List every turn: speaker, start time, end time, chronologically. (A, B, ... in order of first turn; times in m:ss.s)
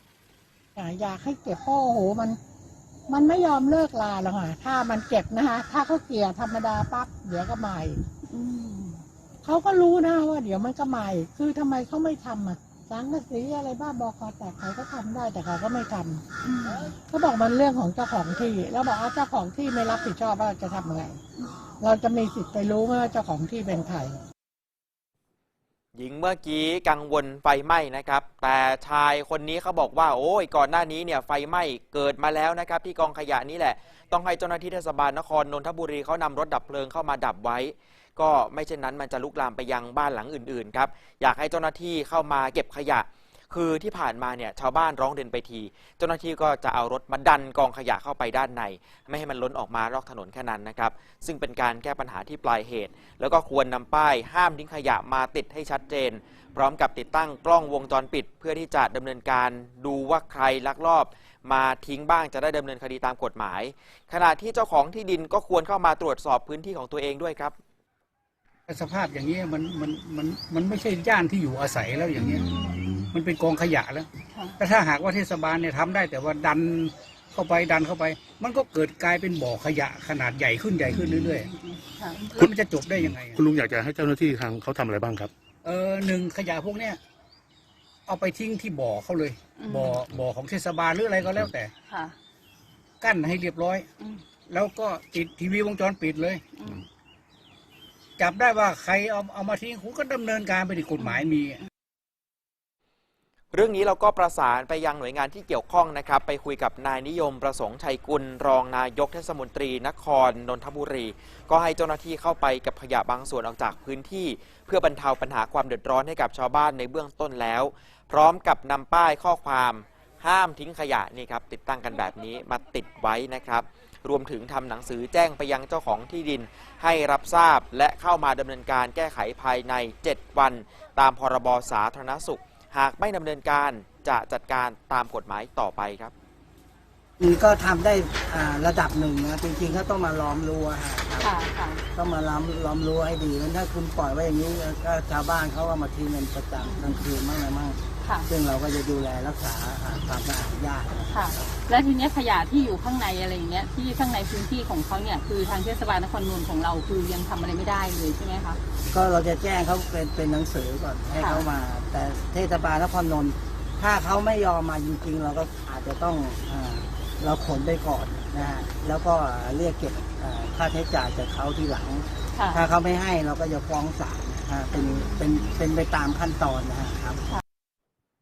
0:00.8-0:02.4 A
0:03.1-0:08.0 A
0:08.3-0:09.0 B
0:09.4-0:16.2 A
0:16.4-0:16.9 B
0:17.0-0:21.2 A
0:21.8-0:24.2 A
0:26.0-1:07.5 C
1:08.7-1:21.5 D
1:12.2-1:13.1 B
1:20.9-1:22.2 B
1:22.2-1:23.4 D
1:22.4-1:25.3 E
1:25.6-1:27.0 D
1:28.1-1:31.7 D
1:29.6-1:30.0 B
1:31.2-1:31.5 E
1:31.9-1:32.1 B
1:33.0-1:33.9 D
1:34.5-1:36.4 D
1:36.5-1:36.8 B
1:38.2-1:41.6 D
1:41.0-1:41.2 B
1:43.5-2:16.1 C
2:17.2-2:21.3 F
2:21.2-2:21.8 B
2:21.9-2:31.5 F
2:26.6-2:27.1 B
2:28.0-2:28.3 B
2:31.1-2:38.6 B
2:38.9-2:57.2 F
2:41.2-2:41.4 B
2:52.3-2:52.6 B
2:54.7-2:55.5 B